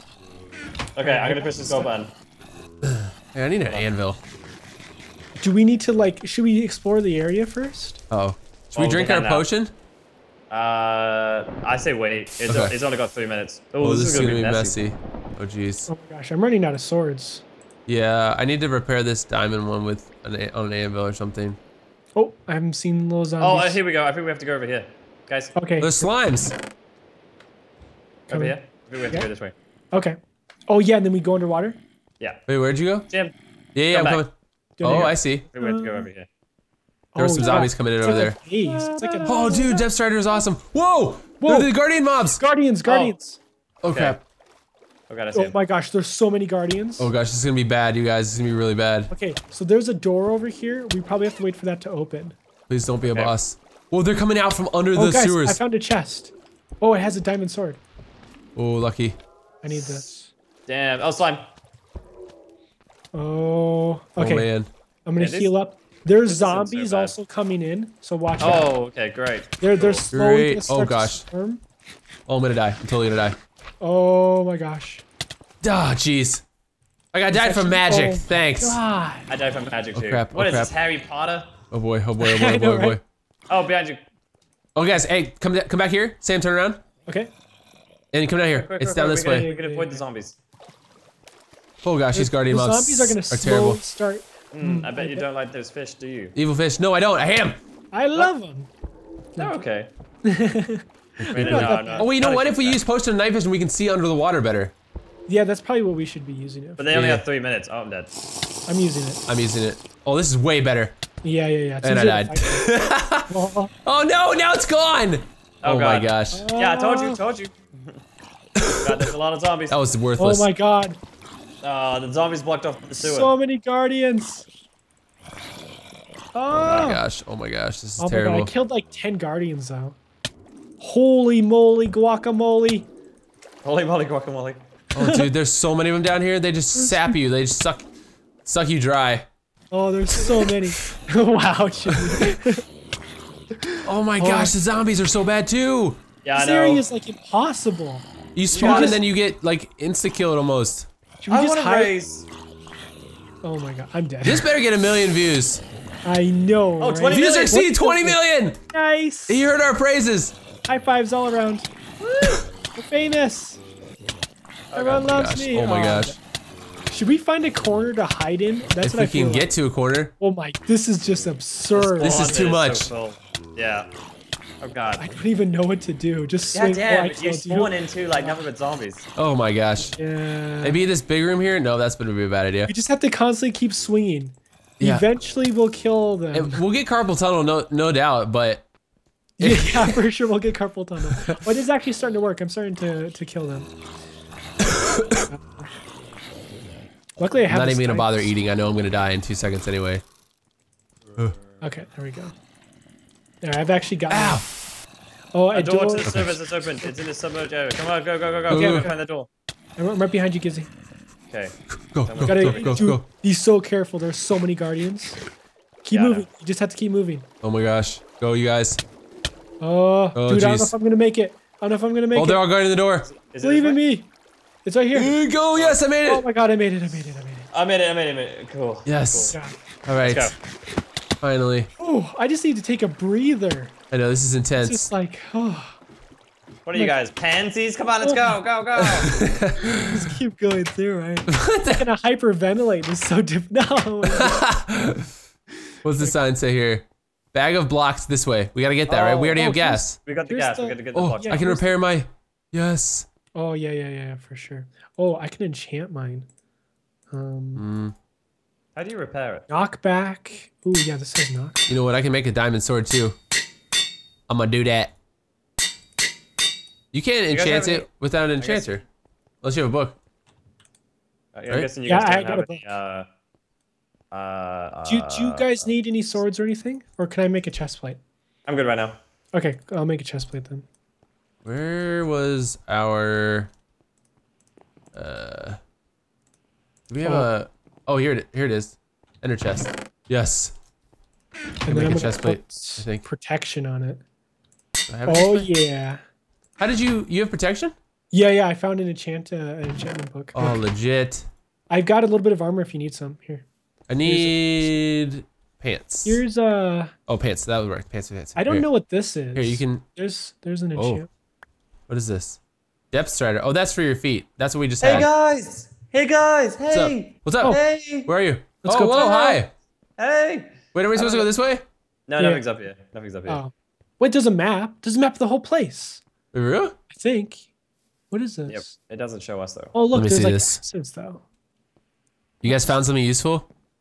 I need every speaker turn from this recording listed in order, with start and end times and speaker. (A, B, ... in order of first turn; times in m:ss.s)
0:00.9-0:02.1 A
0:01.0-0:01.9 B
0:02.8-0:04.2 C
0:03.6-0:03.9 A
0:05.4-0:08.0 B
0:08.1-0:09.7 C
0:08.7-0:09.5 A
0:10.5-0:14.8 A
0:12.5-0:12.8 C
0:13.8-0:15.9 C
0:15.9-0:17.4 B
0:17.9-0:21.6 C
0:22.1-0:23.8 B
0:23.4-0:25.5 A
0:25.6-0:26.1 B
0:25.8-0:26.5 C
0:28.3-0:29.5 A
0:28.3-0:28.5 B
0:29.9-0:30.2 B
0:30.7-0:31.8 B
0:32.5-0:33.1 C
0:33.1-0:33.4 A
0:33.7-0:34.3 C
0:33.9-0:34.2 A
0:34.8-0:36.1 B
0:34.8-0:35.4 C
0:35.5-0:36.3 A
0:37.1-0:39.8 B
0:37.2-0:38.4 C
0:37.4-0:37.6 A
0:38.6-0:39.7 A
0:39.2-0:42.4 C
0:41.4-0:41.7 B
0:42.3-0:43.4 B
0:42.8-0:43.1 A
0:43.8-0:44.2 C
0:43.9-0:44.2 A
0:45.1-0:45.6 A
0:45.3-0:47.1 B
0:47.0-0:49.1 C
0:49.1-0:52.4 B
0:52.7-0:55.6 C
0:53.0-0:53.3 A
0:54.9-0:57.8 B
0:58.5-0:59.2 C
0:59.6-1:00.3 B
1:00.7-1:01.4 A
1:03.1-1:04.5 B
1:04.2-1:04.7 C
1:05.0-1:08.7 B
1:05.2-1:05.5 A
1:06.2-1:07.1 A
1:08.4-1:10.0 A
1:09.6-1:11.6 B
1:10.1-1:11.2 C
1:12.3-1:13.4 C
1:13.8-1:15.0 B
1:15.6-1:16.4 C
1:17.1-1:18.8 C
1:17.3-1:19.3 B
1:19.3-1:21.5 A
1:19.9-1:20.7 C
1:21.7-1:23.0 C
1:22.2-1:23.0 B
1:23.5-1:24.0 A
1:24.8-1:26.8 C
1:27.0-1:27.3 B
1:28.1-1:29.5 C
1:28.6-1:30.4 A
1:29.3-1:30.0 B
1:31.8-1:33.8 C
1:32.1-1:35.3 B
1:34.5-1:36.3 A
1:36.4-1:37.6 C
1:37.9-1:38.7 B
1:39.4-1:39.6 B
1:39.4-1:39.9 A
1:40.2-1:42.1 B
1:41.2-1:44.7 C
1:41.3-1:42.8 A
1:45.3-1:46.9 B
1:46.8-1:48.1 A
1:46.9-1:47.2 C
1:48.7-1:49.2 B
1:49.3-1:50.9 C
1:51.2-1:53.7 B
1:51.8-1:53.3 C
1:53.8-1:56.5 C
1:55.6-1:58.0 A
1:56.3-1:57.2 B
1:58.6-1:59.0 C
1:58.8-1:59.8 A
1:59.7-2:00.5 C
2:00.2-2:01.0 B
2:01.6-2:03.3 A
2:03.0-2:04.4 B
2:06.3-2:07.0 B
2:06.6-2:08.5 C
2:08.0-2:10.0 B
2:10.8-2:12.9 B
2:13.6-2:14.6 A
2:14.9-2:17.9 C
2:15.0-2:15.3 B
2:16.7-2:17.2 B
2:18.4-2:19.3 C
2:19.7-2:22.6 B
2:20.2-2:20.6 C
2:21.9-2:22.2 C
2:23.6-2:24.5 B
2:23.8-2:26.0 C
2:26.2-2:26.8 A
2:26.3-2:29.0 B
2:28.4-2:30.9 C
2:28.5-2:29.0 A
2:31.2-2:32.0 B
2:31.3-2:32.3 A
2:33.4-2:34.5 B
2:34.2-2:35.6 C
2:36.0-2:39.5 B
2:36.8-2:37.6 A
2:37.1-2:38.6 C
2:39.3-2:40.3 C
2:40.7-2:41.7 B
2:42.0-2:42.4 A
2:42.7-2:43.6 B
2:44.7-2:45.1 A
2:44.7-2:46.2 B
2:45.1-2:46.1 C
2:46.9-2:49.5 B
2:48.8-2:50.1 C
2:50.2-2:52.4 B
2:51.7-2:53.9 A
2:52.0-2:52.9 C
2:54.6-2:55.0 A
2:55.0-2:58.4 B
2:56.5-2:59.0 A
2:59.2-3:00.0 C
2:59.8-3:00.8 B
3:00.6-3:02.7 C
3:02.7-3:06.6 B
3:04.8-3:05.1 C
3:06.3-3:08.6 C
3:09.4-3:10.0 C
3:09.4-3:13.7 B
3:11.1-3:11.4 C
3:14.6-3:15.2 C
3:15.3-3:15.7 B
3:17.2-3:18.3 B
3:17.5-3:20.0 C
3:21.6-3:22.3 B
3:23.4-3:24.4 B
3:24.1-3:24.4 C
3:25.3-3:26.2 B
3:25.5-3:29.3 A
3:26.1-3:26.4 C
3:28.5-3:28.9 C
3:28.5-3:28.9 B
3:29.8-3:30.7 B
3:31.3-3:32.8 A
3:31.8-3:33.0 C
3:32.2-3:35.2 B
3:35.8-3:37.2 B
3:35.9-3:36.3 A
3:37.4-3:38.8 C
3:39.6-3:42.4 B
3:40.1-3:40.7 C
3:42.1-3:43.1 C
3:43.0-3:43.8 A
3:43.4-3:44.1 B
3:44.6-3:45.2 B
3:44.9-3:46.2 C
3:45.5-3:45.8 A
3:46.0-3:47.5 B
3:47.5-3:49.3 A
3:48.8-3:49.3 C
3:49.8-3:50.3 C
3:50.0-3:50.3 A
3:51.2-3:51.7 C
3:51.8-3:53.7 B
3:53.9-3:54.9 C
3:54.6-3:55.8 B
3:56.6-3:59.1 A
3:58.0-3:58.3 B
3:58.8-3:59.8 C
3:59.6-4:04.4 B
4:01.3-4:01.8 C
4:04.0-4:05.1 C
4:05.8-4:10.0 C
4:08.9-4:09.4 A
4:09.3-4:11.7 B
4:10.0-4:11.5 A
4:10.9-4:13.0 C
4:13.3-4:16.2 B
4:17.1-4:17.6 B
4:17.5-4:17.9 C
4:18.8-4:19.5 A
4:19.5-4:21.7 B
4:21.7-4:23.2 C
4:24.3-4:24.9 C
4:26.9-4:28.8 C
4:27.3-4:27.9 A
4:28.4-4:28.8 A
4:29.4-4:30.0 C
4:31.3-4:33.1 A
4:31.8-4:32.7 B
4:34.1-4:35.6 A
4:34.9-4:38.0 B
4:38.5-4:39.0 A
4:39.3-4:40.6 B
4:41.4-4:43.5 C
4:44.9-4:45.6 C
4:46.9-4:50.5 C
4:47.0-4:47.3 B
4:51.6-4:54.0 B
4:51.7-4:53.0 C
4:54.9-4:55.5 C
4:55.1-4:56.0 B
4:56.6-4:57.7 C
4:58.1-5:00.6 B
5:00.3-5:01.3 C
5:01.7-5:03.4 B
5:03.9-5:06.2 C
5:04.0-5:04.7 B
5:06.0-5:06.9 B
5:07.1-5:08.7 C
5:08.3-5:11.1 B
5:09.3-5:09.8 C
5:10.8-5:11.0 C
5:11.9-5:12.4 C
5:12.9-5:15.1 C
5:14.8-5:18.1 A
5:16.7-5:19.5 C
5:18.6-5:19.4 B
5:20.0-5:20.6 A
5:20.7-5:21.6 C
5:20.9-5:21.2 B
5:22.1-5:23.4 A
5:22.2-5:22.4 B
5:23.3-5:26.0 B
5:26.3-5:26.7 C
5:26.9-5:27.5 B
5:28.1-5:28.8 B
5:28.5-5:29.7 A
5:29.7-5:31.2 B
5:29.9-5:30.6 C
5:32.4-5:33.5 C
5:32.4-5:32.8 B